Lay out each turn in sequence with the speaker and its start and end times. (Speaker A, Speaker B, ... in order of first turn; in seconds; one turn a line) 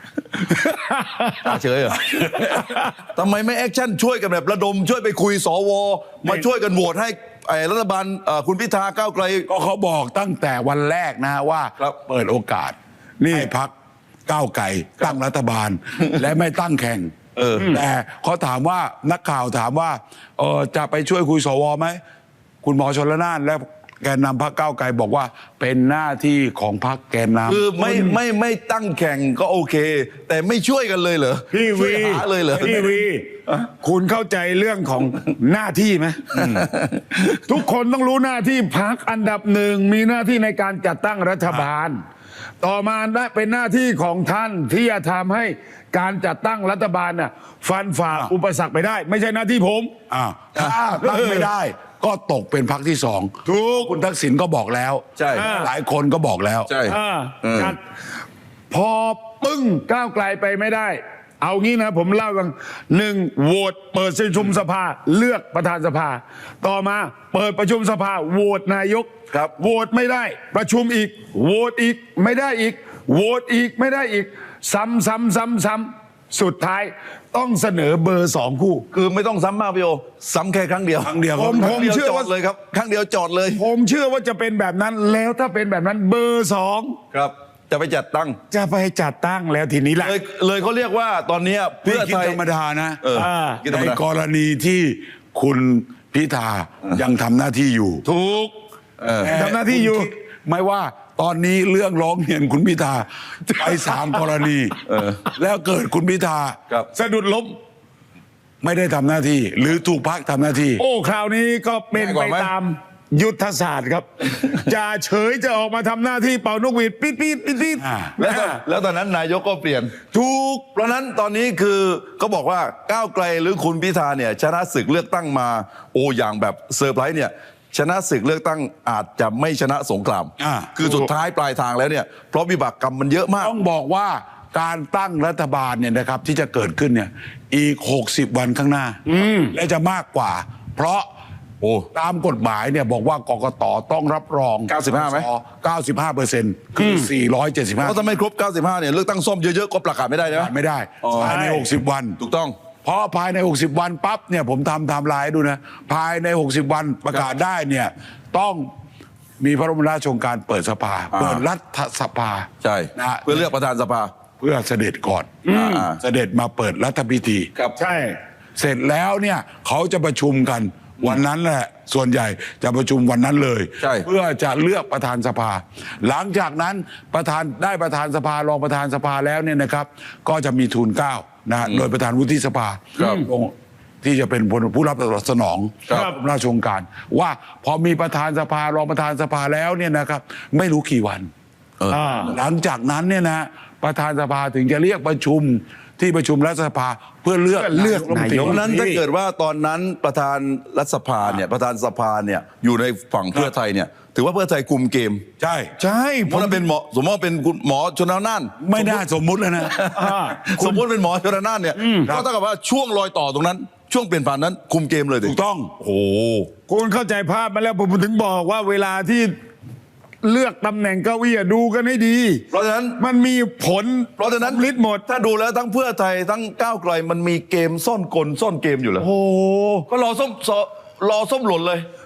Speaker A: 0.6-1.4
Speaker B: 1.4-2.4
Speaker C: 2.0-2.6
Speaker B: 3.0-9.5
Speaker C: 9.5-12.8
Speaker A: 13.2-13.5
Speaker C: 13.3-13.7
Speaker C: 14.3-22.0
Speaker B: 17.4-17.8
Speaker C: 22.6-27.7
Speaker B: 27.5-32.8
Speaker A: 27.8-28.1
Speaker A: 31.5-33.3
Speaker C: 32.5-33.0
Speaker A: 33.8-36.2
Speaker B: 36.3-37.6
Speaker C: 36.3-36.7
Speaker A: 37.5-42.0
Speaker A: 42.6-49.9
Speaker C: 50.1-53.3
Speaker A: 51.0-51.5
Speaker A: 53.5-54.0
Speaker C: 53.9-56.7
Speaker B: 55.2-55.5
Speaker A: 55.4-55.7
Speaker B: 56.7-57.8
Speaker A: 56.9-57.8
Speaker A: 58.7-78.8
Speaker B: 78.9-83.6
Speaker C: 81.0-81.9
Speaker A: 81.3-82.3
Speaker A: 83.6-87.0
Speaker B: 87.1-88.4
Speaker A: 88.5-90.2
Speaker B: 90.0-92.4
Speaker C: 91.8-93.0
Speaker B: 93.0-94.0
Speaker A: 93.2-93.6
Speaker C: 93.7-98.0
Speaker A: 98.0-98.5
Speaker B: 99.0-99.3
Speaker C: 99.2-104.8
Speaker A: 99.2-100.1
Speaker B: 103.5-103.9
Speaker B: 104.9-105.2
Speaker C: 105.4-106.6
Speaker A: 106.9-107.6
Speaker C: 108.6-110.8
Speaker A: 110.8-118.6
Speaker B: 111.9-112.5
Speaker C: 117.8-118.2
Speaker B: 118.2-120.0
Speaker A: 120.1-120.7
Speaker B: 120.8-133.5
Speaker C: 130.4-130.8
Speaker C: 133.4-139.0
Speaker A: 139.1-139.6
Speaker C: 139.5-141.1
Speaker B: 141.6-141.9
Speaker C: 141.9-148.0
Speaker B: 144.7-145.3
Speaker A: 146.8-147.1
Speaker B: 147.8-150.5
Speaker C: 150.3-152.2
Speaker B: 151.0-151.4
Speaker A: 151.2-151.7
Speaker B: 152.2-152.5
Speaker C: 152.8-158.7
Speaker C: 159.4-163.5
Speaker B: 161.1-161.4
Speaker B: 162.6-164.1
Speaker C: 164.4-165.4
Speaker A: 165.4-165.8
Speaker B: 165.5-166.0
Speaker C: 166.0-167.5
Speaker A: 167.8-168.2
Speaker C: 168.6-191.3
Speaker B: 173.8-174.1
Speaker B: 183.0-183.2
Speaker A: 185.9-186.2
Speaker B: 191.8-192.3
Speaker A: 191.9-192.3
Speaker C: 192.3-198.7
Speaker A: 197.5-199.0
Speaker B: 198.4-205.2
Speaker C: 205.4-205.7
Speaker A: 205.8-206.6
Speaker B: 206.3-209.0
Speaker C: 208.6-209.8
Speaker B: 209.6-216.5
Speaker A: 209.9-210.6
Speaker A: 211.8-212.1
Speaker C: 215.2-215.8
Speaker A: 216.7-219.3
Speaker A: 220.2-222.4
Speaker B: 222.5-223.0
Speaker A: 223.0-225.0
Speaker B: 224.2-229.1
Speaker A: 229.0-229.9
Speaker B: 229.9-231.8